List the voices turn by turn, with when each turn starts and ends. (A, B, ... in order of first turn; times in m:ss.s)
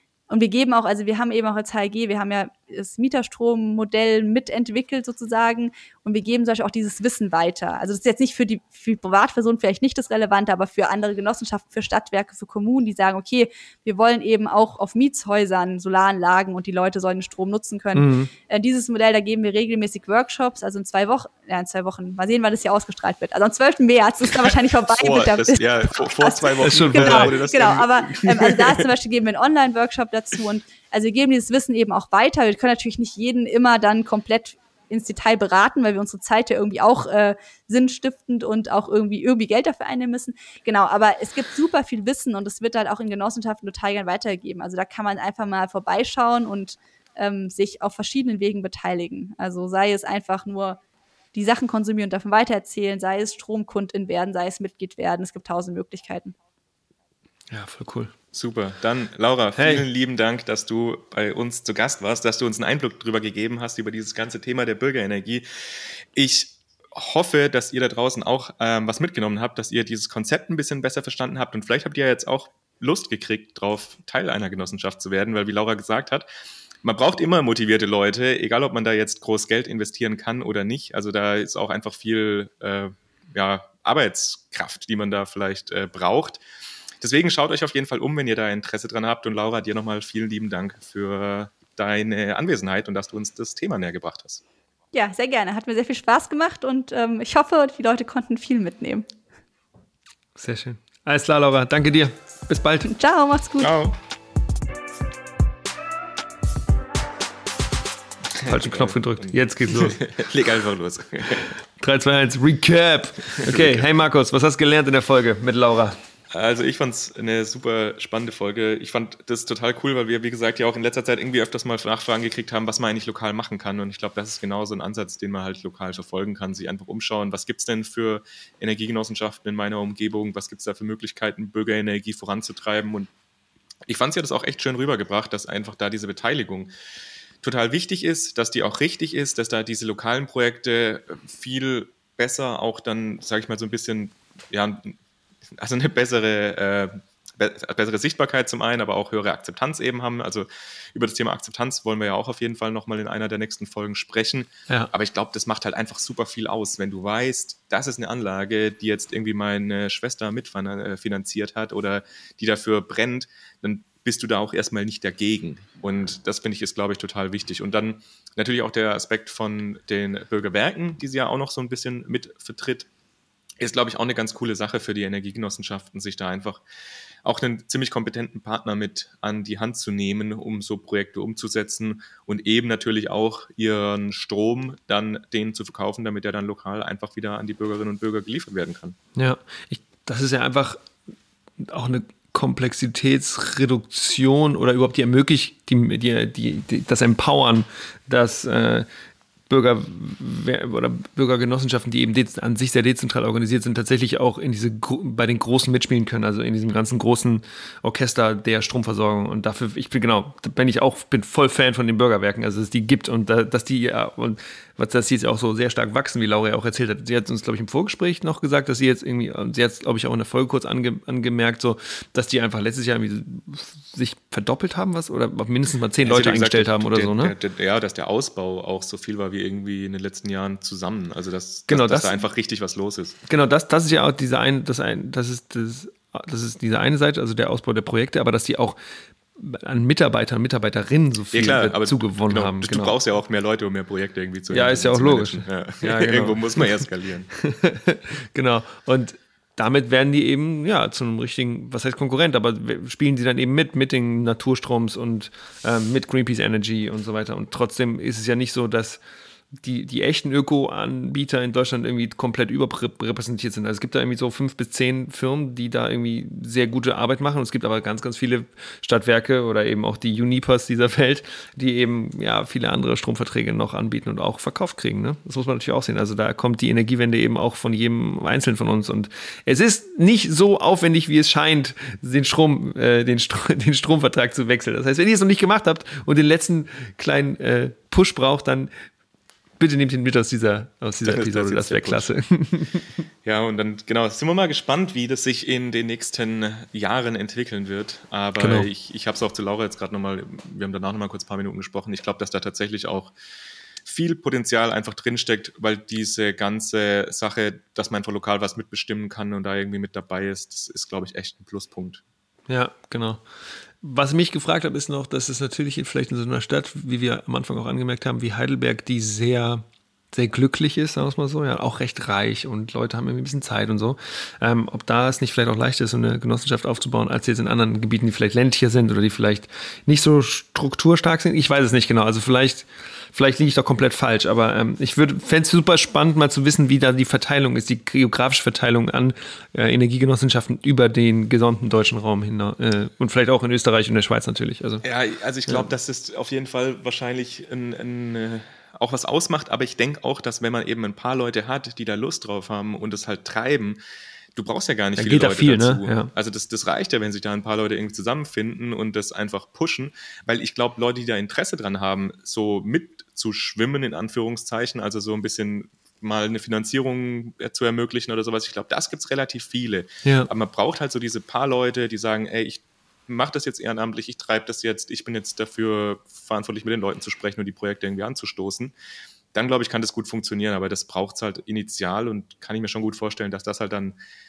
0:00.3-0:50.8 A
0:17.9-0:18.3 B
0:24.4-0:28.8 C
0:26.6-0:27.3 B
0:51.3-0:56.3 A
0:57.5-0:58.1 B
0:58.3-1:05.4 C
0:59.6-0:59.8 B
1:06.1-1:16.2 C
1:16.8-1:26.4 C
1:27.0-1:34.4 C
1:34.9-1:39.0 A
1:40.4-1:42.9 B
1:42.8-1:43.7 A
1:43.6-1:43.9 C
1:48.4-1:51.5 C
1:48.4-1:50.0 B
1:51.3-1:56.0 B
1:53.3-1:53.8 C
1:56.3-2:13.1 C
2:13.8-2:16.7 C
2:17.4-2:25.0 C
2:25.6-2:52.9 C
2:53.6-2:56.6 C
2:57.2-3:09.0 C
3:09.1-3:10.9 B
3:11.6-3:18.9 B
3:19.5-3:47.3 B
3:46.0-3:53.2 C
3:51.7-3:52.2 B
3:53.3-3:58.8 B
3:59.3-4:03.0 B
4:01.3-4:07.3 C
4:04.5-4:19.0 B
4:19.5-4:48.7 B
4:49.6-4:53.0 B
4:51.0-4:52.1 C
4:53.2-5:03.1 C
4:58.4-4:58.7 B
5:03.8-5:12.0 C
5:12.5-5:13.3 B
5:13.8-5:44.8 B
5:44.8-5:53.8 C
5:54.3-6:18.7 C
5:55.0-5:56.1 B
6:19.3-6:24.0 C